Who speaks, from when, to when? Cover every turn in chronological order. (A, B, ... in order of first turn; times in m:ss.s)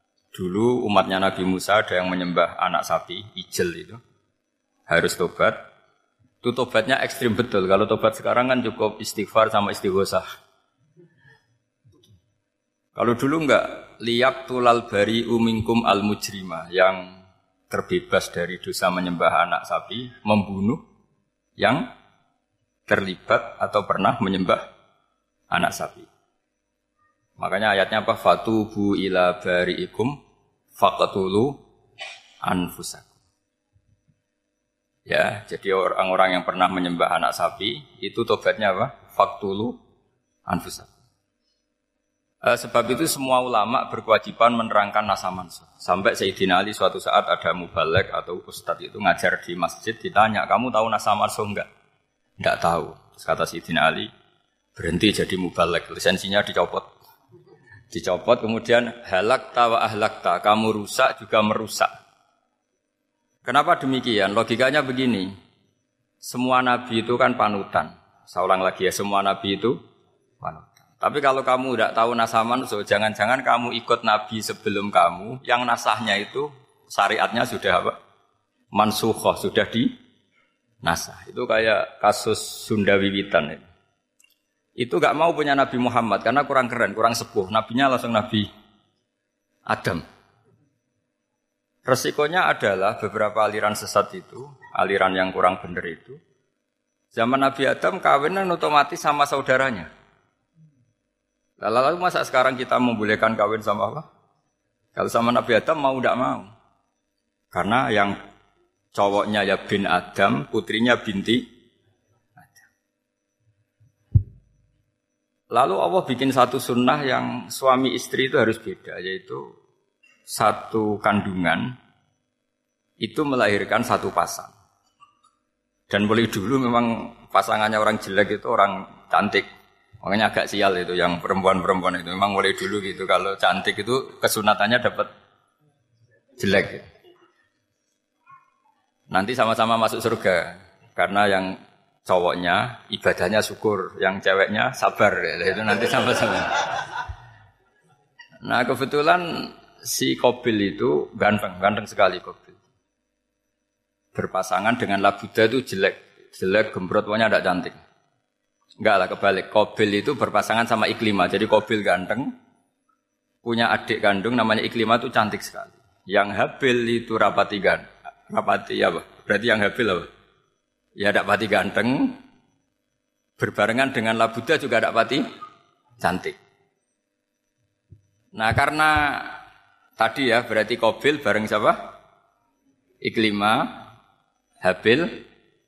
0:00.3-0:04.0 A
0:04.9-0:05.6 A
0:06.4-0:10.2 A
0:13.0-0:17.2 A
0:17.7-0:20.8 A
0:21.6-0:21.9 A
0:22.9-0:24.6 A
0:25.5-0:26.1 A
0:27.4-0:30.2 A
0:30.8-0:31.6 A
0:32.4-0:33.1 A
0:35.1-0:39.8 A
0:40.5-0:40.9 A
0:42.4-0:51.7 A
0:52.4-0:54.1 A
0:54.8-0:56.9 A
0:57.9-1:01.9 A
1:03.4-1:05.3 A
1:06.2-1:09.8 A
1:10.4-1:18.0 A
1:18.7-1:20.0 A
1:20.8-1:23.6 A
1:24.8-1:28.5 A
1:29.7-1:30.0 A
1:31.8-1:36.2 A
1:37.1-1:39.9 A
1:41.6-1:44.0 A
1:44.9-1:46.5 A
1:47.5-1:48.1 A
1:48.9-1:51.4 A
1:55.5-1:59.4 A
2:00.3-2:01.7 A
2:03.0-2:04.5 A
2:05.9-2:09.4 A
2:10.0-2:15.1 A
2:16.4-2:16.9 A
2:19.1-2:26.9 A
2:28.4-2:32.6 A
2:34.1-2:37.8 A
2:38.8-2:42.3 A
2:43.4-2:50.1 A
2:51.0-2:52.2 A
2:53.4-2:55.2 A
2:56.0-2:56.4 A
2:58.3-2:59.4 A
3:00.0-3:01.9 A
3:03.0-3:03.8 A
3:04.6-3:05.2 A